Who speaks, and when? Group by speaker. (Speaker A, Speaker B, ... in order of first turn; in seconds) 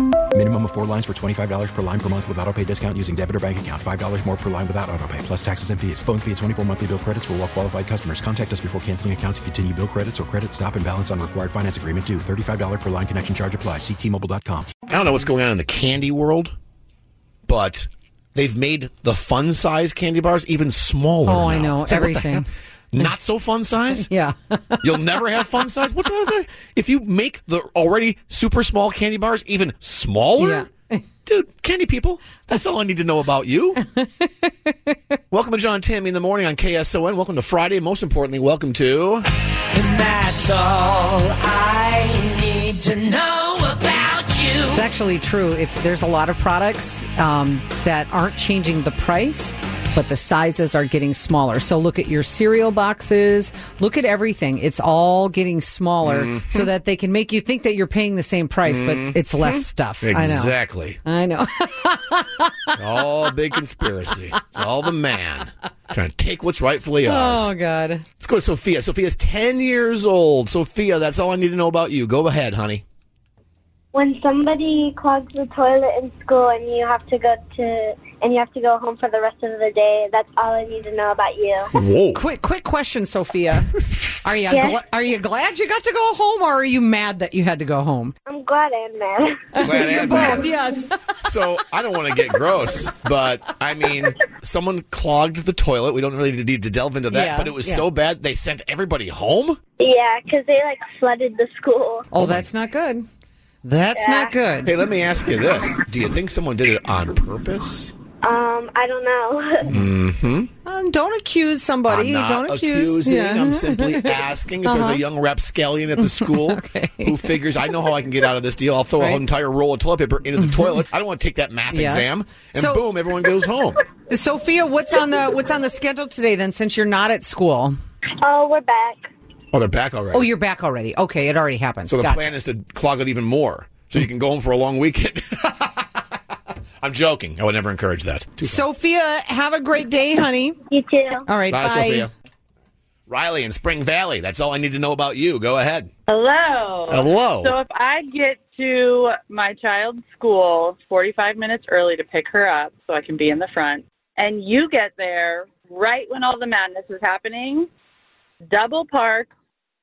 Speaker A: 0.3-14.7
Speaker B: 14.9-16.5, 17.5-24.1, 24.8-30.7, 31.3-33.8, 35.3-39.3, 56.0-56.7, 58.7-61.0, 62.8-67.5, 68.2-72.8, 81.7-82.2, 89.6-90.5, 91.2-99.6, 102.2-102.5, 104.7-108.0, 109.7-110.5, 111.9-123.8, 129.5-130.3, 131.9-136.2, 136.8-138.6, 141.5-142.1, 143.1-145.9, 146.9-147.6
Speaker C: 21.2-22.5, 24.0-25.1, 30.4-31.0, 34.0-34.3, 44.7-62.8, 67.0-68.0, 82.1-88.2, 89.5-90.9, 97.1-97.9, 102.1-103.1, 103.6-104.8, 110.7-115.0, 116.0-117.3, 121.7-122.9, 124.1-127.8, 130.1-132.3, 138.4-140.6, 141.3-142.1
Speaker D: 39.7-44.8
Speaker E: 73.9-81.7, 84.5-84.8, 88.3-90.3, 99.8-102.0, 104.0-104.3, 108.2-109.8, 128.2-129.1, 140.7-141.3
Speaker F: 146.1-157.7, 158.5-159.3